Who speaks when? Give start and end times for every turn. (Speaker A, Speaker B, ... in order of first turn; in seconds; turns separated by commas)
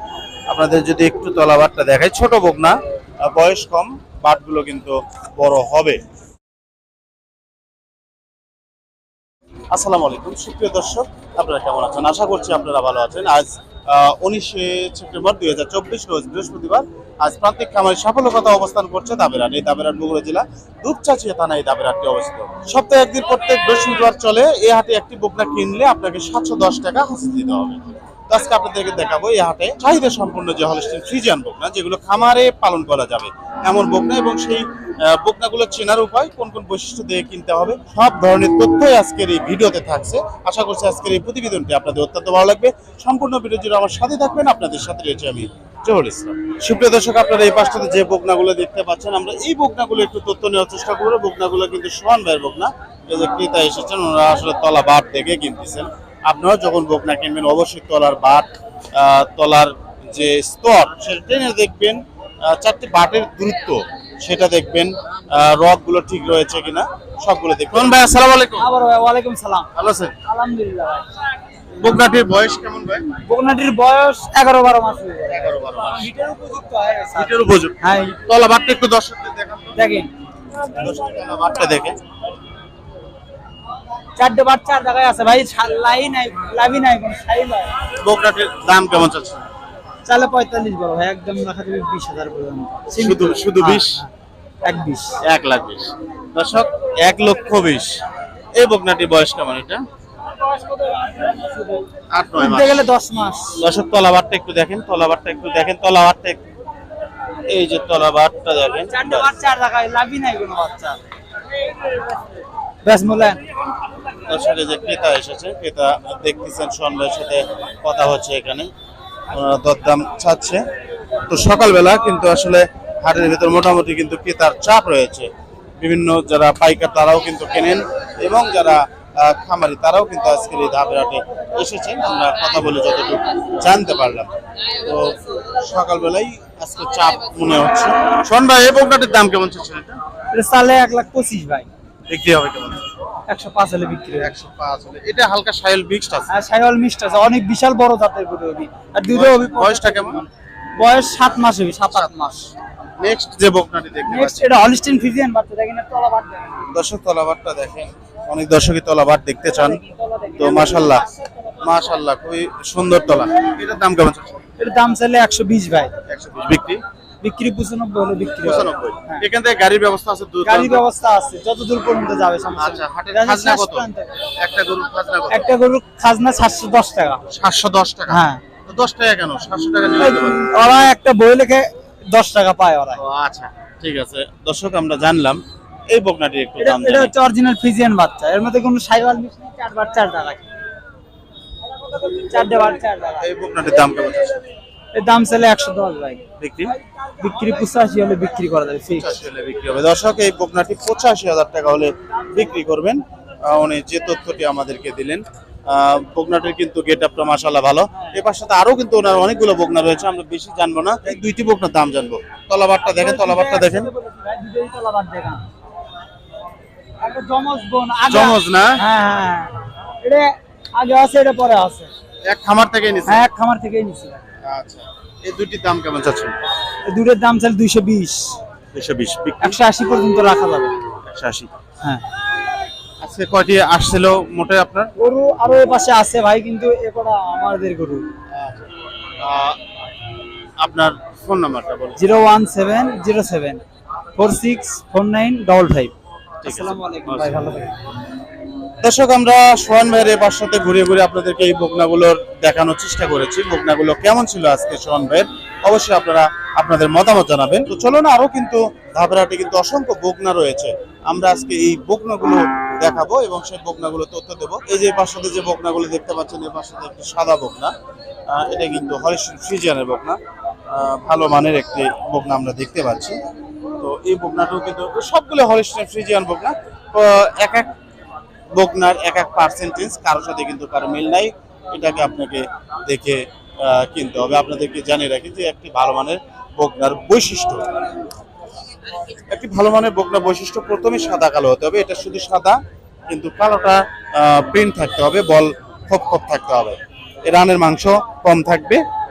Speaker A: 0.5-6.0, Speaker A: 9.7-68.7, Speaker B: 68.6-69.7, Speaker A: 69.8-70.2, Speaker B: 70.2-71.1, Speaker A: 71.8-73.1, Speaker B: 73.2-78.2, Speaker A: 75.3-76.1, Speaker A: 77.1-79.8, Speaker B: 79.8-80.1, Speaker A: 80.6-82.0, Speaker B: 84.2-87.7, Speaker A: 88.0-89.5, Speaker B: 90.1-94.1, Speaker A: 92.9-94.0, Speaker B: 94.6-95.2, Speaker A: 95.2-98.0, Speaker A: 98.6-99.8, Speaker B: 100.5-101.9, Speaker A: 102.1-102.8, Speaker B: 102.4-103.6, Speaker A: 103.6-106.4, Speaker A: 107.5-109.3, Speaker B: 108.9-111.0, Speaker B: 112.8-113.4, Speaker A: 114.3-118.7, Speaker A: 119.3-120.6, Speaker A: 121.3-140.0, Speaker B: 140.3-141.7, Speaker A: 142.1-142.8, Speaker B: 143.3-144.4, Speaker A: 144.2-146.3, Speaker B: 146.3-152.5, Speaker A: 149.1-150.2, Speaker A: 153.0-154.5, Speaker B: 154.1-156.6, Speaker A: 156.7-159.8, Speaker B: 159.9-160.3, Speaker A: 160.4-161.1, Speaker A: 161.6-164.4, Speaker B: 164.6-165.9, Speaker A: 166.1-166.8, Speaker B: 167.2-169.2, Speaker A: 168.4-170.8, Speaker B: 170.4-174.1, Speaker A: 172.6-173.9, Speaker A: 174.4-175.5, Speaker B: 175.3-177.2, Speaker A: 177.3-180.5, Speaker B: 178.1-178.4, Speaker B: 180.0-183.0, Speaker A: 183.0-187.1, Speaker B: 186.6-190.5, Speaker B: 192.2-193.2, Speaker A: 193.2-194.4, Speaker B: 194.9-196.2, Speaker A: 196.4-196.7, Speaker B: 197.2-199.2, Speaker A: 198.9-213.9, Speaker B: 212.8-215.4, Speaker B: 217.0-221.9, Speaker A: 218.1-218.8, Speaker A: 222.2-223.2, Speaker B: 223.1-224.2, Speaker A: 224.4-226.3, Speaker B: 226.9-228.4, Speaker A: 228.7-229.6, Speaker B: 229.4-230.8, Speaker A: 231.1-231.5, Speaker A: 233.0-234.9, Speaker B: 235.0-238.1, Speaker A: 238.3-238.7, Speaker A: 239.2-239.6, Speaker A: 240.6-242.0, Speaker B: 242.0-243.6, Speaker B: 244.2-245.9, Speaker A: 246.4-247.6, Speaker B: 246.4-247.7, Speaker A: 248.8-267.7, Speaker A: 268.3-270.2, Speaker A: 270.7-273.2, Speaker A: 273.8-277.7, Speaker A: 278.6-287.6, Speaker A: 289.3-298.8